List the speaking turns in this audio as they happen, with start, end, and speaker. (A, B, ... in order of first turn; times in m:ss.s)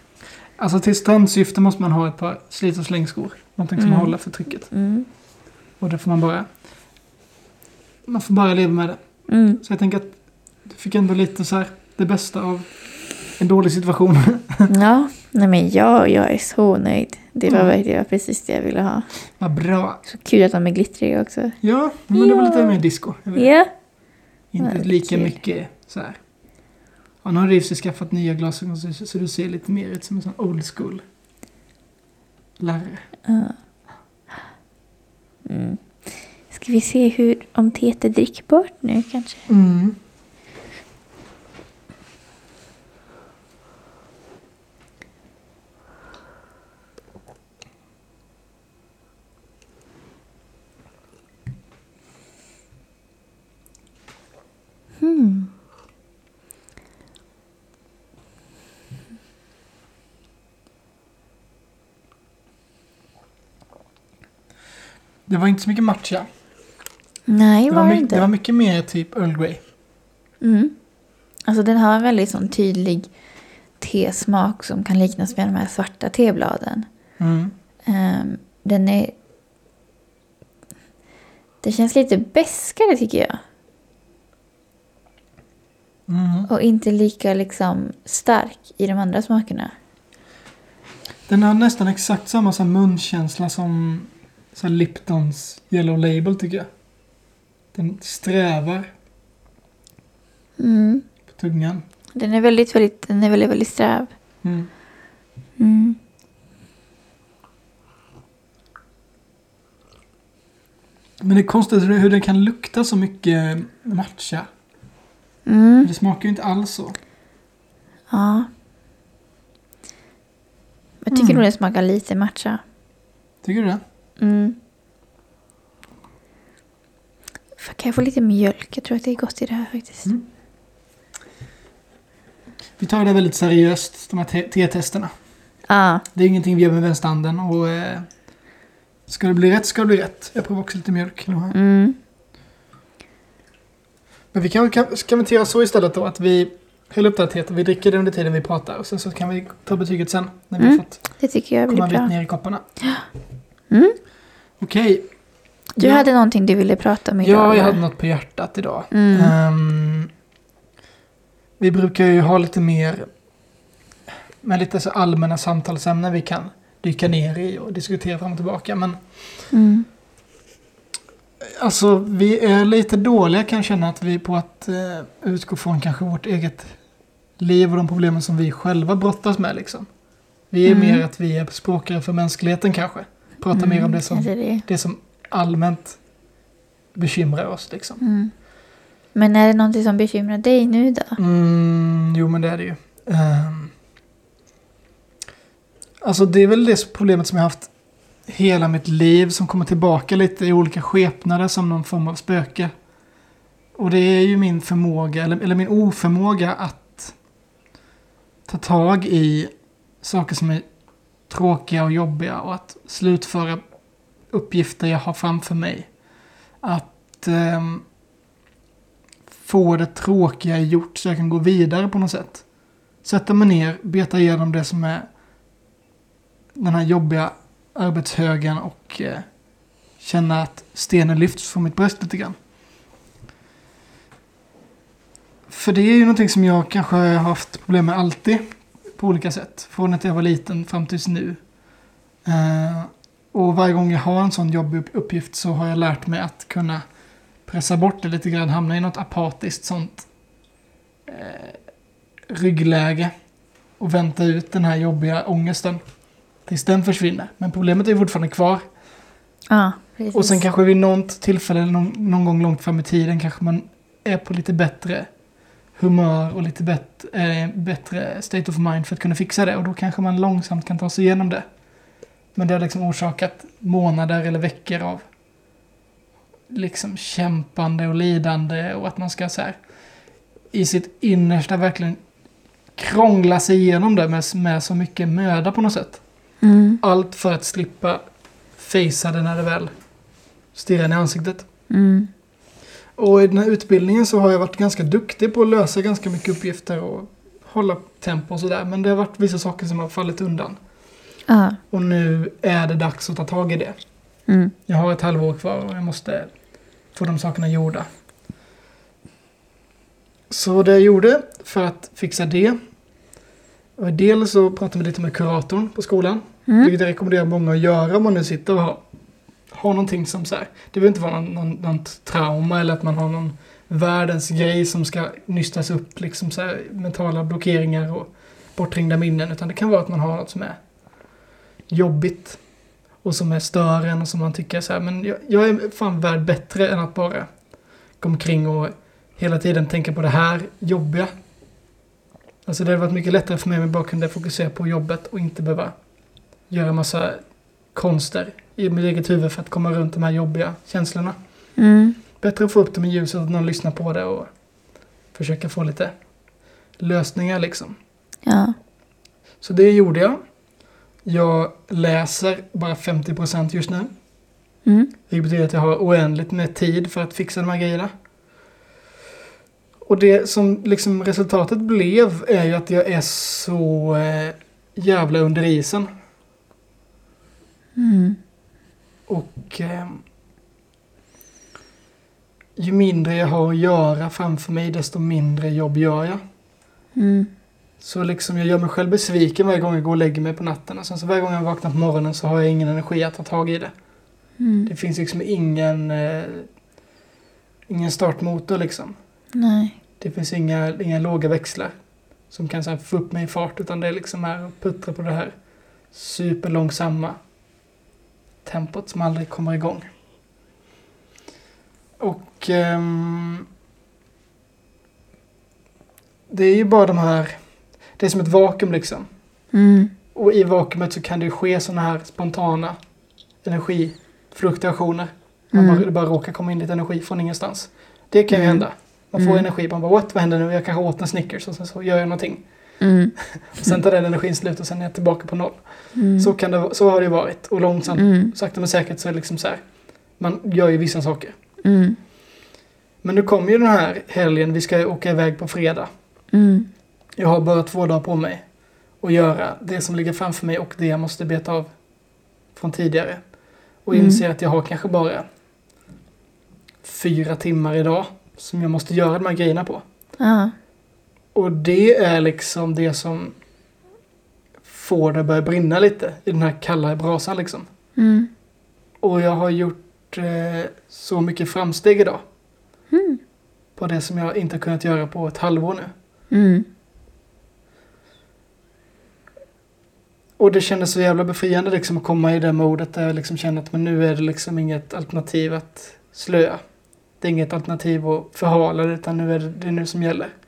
0:00.6-0:04.7 A
0:03.8-0:04.2 B
0:04.7-0:05.1 B
0:05.8-0:06.5 A
0:08.1-0:09.0 A
0:09.3-0:09.6 B
0:09.6-0:10.2 A
0:10.7-0:12.7 A
0:13.4-0:14.7 A
0:14.7-0:19.1 B
0:17.5-0:17.7 A
0:19.4-0:20.0 A
0:20.1-0:21.6 B
0:21.6-0:23.5 A
0:22.1-0:22.8 B
0:23.4-0:23.7 B
0:24.5-0:26.2 A
0:24.6-0:25.4 B
0:27.2-0:31.0 A
0:32.6-0:33.1 A
0:33.3-0:33.6 B
0:35.5-0:35.8 B
0:36.5-0:39.5 B
0:39.5-0:40.0 A
0:55.0-0:55.5 B
1:05.3-1:06.3 A
1:07.3-1:08.3 B
1:07.7-1:09.6 A
1:10.4-1:10.7 B
1:11.5-1:13.1 B
1:13.8-1:16.9 B
1:17.2-1:17.5 A
1:17.9-1:19.1 B
1:21.6-1:23.4 B
1:26.1-1:26.5 A
1:26.5-1:29.7 B
1:31.3-1:36.7 A
1:37.7-1:38.9 A
1:40.6-1:41.0 B
1:41.3-1:41.8 A
1:42.2-1:44.1 B
1:44.4-1:44.7 A
1:45.6-1:46.0 B
1:51.2-1:54.5 A
1:55.5-1:55.9 B
1:55.8-1:57.0 A
1:58.1-1:58.5 B
2:01.0-2:02.6 B
2:01.1-2:01.4 A
2:03.4-2:03.8 A
2:04.2-2:04.6 B
2:07.6-2:10.1 B
2:12.8-2:15.1 A
2:15.7-2:16.0 B
2:16.2-2:18.1 A
2:19.1-2:21.6 A
2:21.5-2:22.0 B
2:24.3-2:31.0 A
2:30.6-2:32.1 B
2:31.7-2:32.6 A
2:33.7-2:34.0 B
2:34.6-2:35.1 A
2:35.8-2:37.8 B
2:35.8-2:36.1 A
2:37.2-2:40.1 A
2:38.9-2:39.4 B
2:41.6-2:43.1 A
2:44.4-2:49.5 A
2:49.5-2:49.9 B
2:51.4-2:56.8 A
2:57.4-2:59.9 A
3:00.5-3:06.0 A
3:00.6-3:01.0 B
3:03.5-3:04.6 B
3:07.0-3:08.0 A
3:08.0-3:08.3 B
3:09.2-3:11.2 B
3:11.2-3:13.7 A
3:16.0-3:17.7 A
3:18.3-3:22.7 A
3:23.8-3:27.2 A
3:28.5-3:29.5 A
3:30.0-3:30.6 A
3:31.3-3:33.6 A
3:34.3-3:35.9 A
3:36.6-3:37.8 A
3:39.4-3:42.4 A
3:43.0-3:45.1 A
3:46.6-3:49.2 A
3:50.0-3:52.4 A
3:55.5-3:58.4 A
3:59.0-4:01.4 A
4:02.2-4:06.8 A
4:07.5-4:10.1 A
4:11.1-4:11.6 A
4:12.3-4:13.1 A
4:13.8-4:15.8 A
4:16.5-4:18.6 A
4:19.5-4:20.5 B
4:20.1-4:25.1 A
4:25.8-4:31.4 A
4:32.4-4:35.0 A
4:36.5-4:39.6 A
4:40.5-4:42.0 A
4:42.8-4:46.0 A
4:46.4-4:46.8 B
4:46.8-4:48.0 A
4:48.6-4:49.7 A
4:50.6-4:51.5 A
4:51.7-4:52.1 B
4:53.0-5:00.6 A
5:01.3-5:01.6 B
5:01.7-5:03.8 A
5:04.3-5:04.5 B
5:04.7-5:06.3 A
5:06.9-5:07.9 A
5:10.3-5:12.6 A
5:13.8-5:18.8 A
5:16.5-5:16.7 B
5:19.5-5:30.6 A
5:31.7-5:32.4 A
5:33.0-5:37.3 A
5:38.0-5:41.1 A
5:42.4-5:45.8 A
5:46.5-5:47.2 A
5:47.7-5:51.2 A
5:51.6-5:52.0 B
5:52.2-5:54.3 A
5:55.1-5:55.9 A
5:56.8-5:57.8 A
5:58.3-5:58.6 B
5:59.4-6:00.2 A
6:01.0-6:03.9 A
6:04.7-6:04.9 B
6:05.1-6:07.9 A
6:09.8-6:15.9 A
6:17.8-6:18.2 B
6:19.1-6:20.0 A
6:22.6-6:26.2 A
6:27.0-6:27.3 B
6:27.8-6:33.7 A
6:34.4-6:34.7 B
6:34.7-6:36.5 A
6:37.7-6:39.0 A
6:39.4-6:39.8 B
6:40.0-6:41.7 A
6:42.3-6:45.3 A
6:45.9-6:47.2 A
6:48.4-6:49.9 A
6:52.0-6:53.5 A
6:56.3-6:57.3 A
6:58.0-6:59.1 A
6:59.5-6:59.9 B
7:00.1-7:02.8 A
7:03.4-7:12.4 A
7:05.5-7:05.8 B
7:08.3-7:08.6 B
7:09.2-7:09.4 B
7:12.8-7:13.8 B
7:13.2-7:19.6 A
7:16.0-7:16.3 B
7:17.9-7:18.3 B
7:20.2-7:21.4 A
7:21.6-7:22.0 B
7:23.0-7:25.9 A
7:26.3-7:26.7 B
7:27.2-7:28.4 A
7:29.0-7:31.7 A
7:32.6-7:33.2 A
7:33.8-7:35.2 A
7:33.9-7:34.2 B
7:36.8-7:39.8 A
7:40.2-7:40.5 B
7:41.3-7:43.4 A
7:44.6-7:47.7 A
7:48.0-7:48.3 B
7:49.0-7:52.2 A
7:52.9-7:53.2 B
7:53.8-7:55.9 A
7:56.3-7:56.7 B
8:00.4-8:06.6 A
8:07.2-8:10.3 A